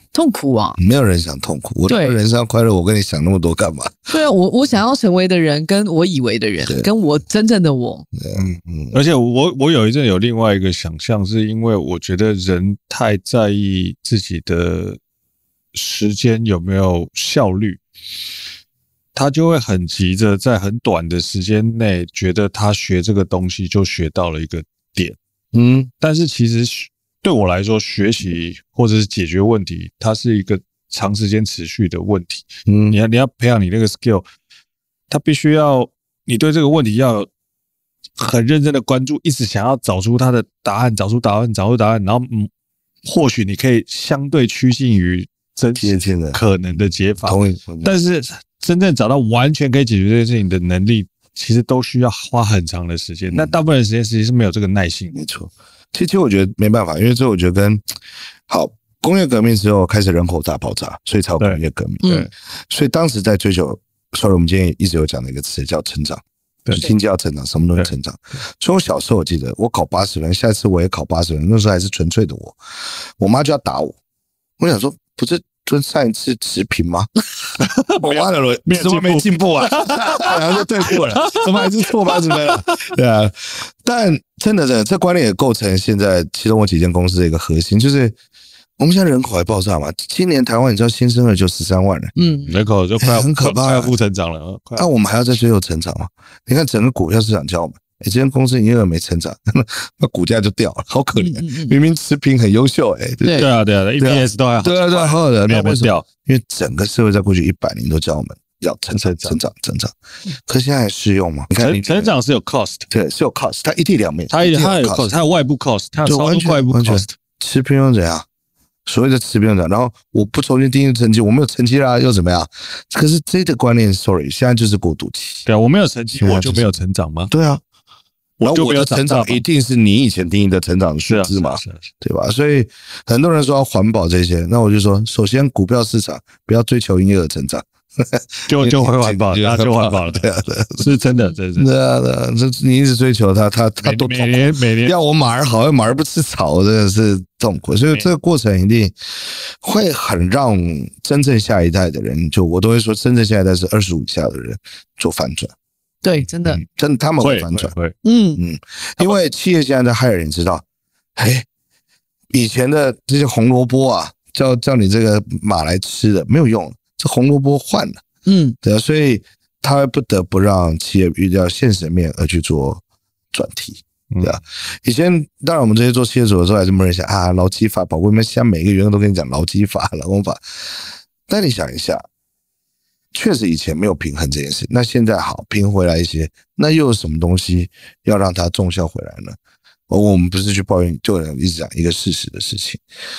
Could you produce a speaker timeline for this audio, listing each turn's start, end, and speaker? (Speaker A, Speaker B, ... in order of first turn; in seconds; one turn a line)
Speaker A: 0.1-0.8
Speaker B: 0.8-4.1
Speaker A: 1.9-2.1
Speaker A: 4.1-8.1
Speaker B: 8.2-9.0
Speaker C: 8.3-15.0
Speaker C: 15.7-17.8
Speaker C: 19.1-25.2
Speaker B: 25.5-25.9
Speaker C: 26.0-34.2
Speaker B: 32.7-33.0
Speaker C: 35.1-37.3
Speaker C: 38.2-42.5
Speaker C: 43.0-55.1
Speaker B: 45.8-46.4
Speaker B: 47.2-47.9
Speaker B: 55.1-57.8
Speaker B: 58.5-72.6
Speaker A: 62.0-62.3
Speaker B: 73.2-74.0
Speaker B: 74.6-77.1
Speaker C: 77.6-82.9
Speaker B: 78.0-88.2
Speaker B: 88.8-92.2
Speaker A: 92.2-92.5
Speaker C: 92.5-94.9
Speaker B: 93.0-93.9
Speaker B: 94.8-103.5
Speaker A: 101.2-101.8
Speaker C: 103.3-106.1
Speaker B: 104.0-109.9
Speaker C: 108.9-109.4
Speaker B: 110.5-112.1
Speaker C: 111.6-112.9
Speaker B: 112.9-115.1
Speaker C: 114.3-117.1
Speaker B: 116.0-118.3
Speaker B: 118.9-125.5
Speaker C: 125.5-127.3
Speaker B: 126.2-126.7
Speaker B: 127.3-127.6
Speaker C: 128.4-129.4
Speaker B: 128.4-140.9
Speaker C: 131.1-131.8
Speaker C: 138.5-141.7
Speaker B: 141.6-148.9
Speaker C: 143.8-144.9
Speaker B: 149.6-155.5
Speaker A: 156.0-156.6
Speaker B: 156.6-157.7
Speaker C: 157.2-158.0
Speaker A: 158.0-158.4
Speaker B: 158.4-160.6
Speaker B: 161.2-161.5
Speaker B: 162.3-168.0
Speaker A: 168.3-168.6
Speaker B: 168.6-180.4
Speaker C: 174.1-174.4
Speaker B: 181.3-182.1
Speaker B: 183.1-189.4
Speaker B: 189.9-192.8